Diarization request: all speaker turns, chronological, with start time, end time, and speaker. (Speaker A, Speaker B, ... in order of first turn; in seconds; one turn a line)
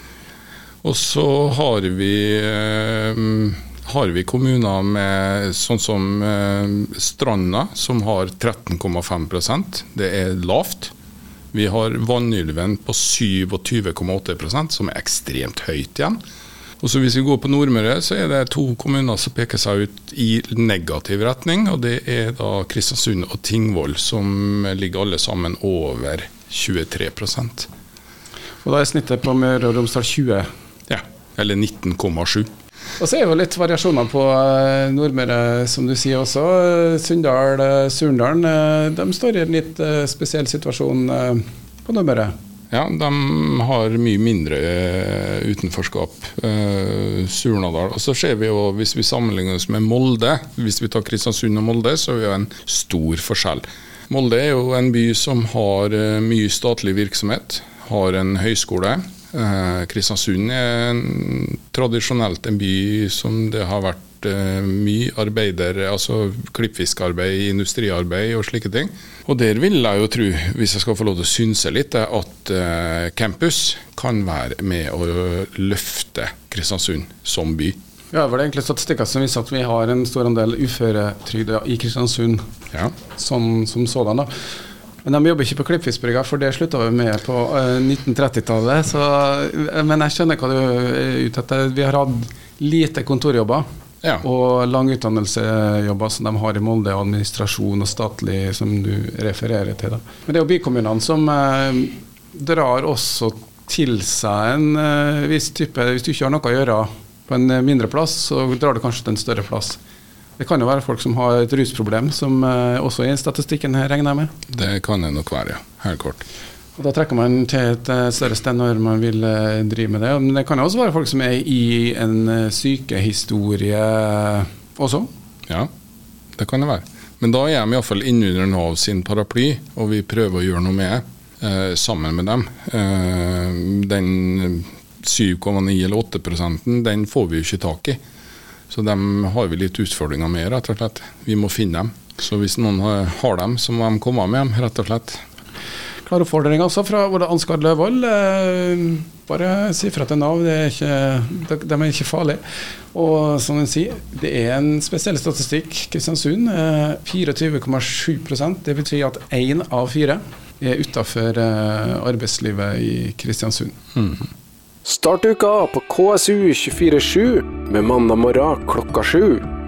Speaker A: 0.8-10.9
Speaker A: 11.5-16.2
Speaker A: 16.8-27.7
Speaker B: 28.6-30.5
Speaker A: 30.9-32.5
Speaker B: 33.0-42.3
Speaker A: 42.7-77.8
Speaker B: 78.1-82.4
Speaker B: 83.1-84.3
Speaker B: 85.0-93.6
Speaker B: 94.2-109.8
Speaker B: 110.4-114.3
Speaker A: 114.5-116.2
Speaker B: 116.8-125.1
Speaker A: 126.4-138.0
Speaker A: 138.7-145.2
Speaker B: 146.1-152.4
Speaker B: 152.9-163.8
Speaker C: 164.8-169.4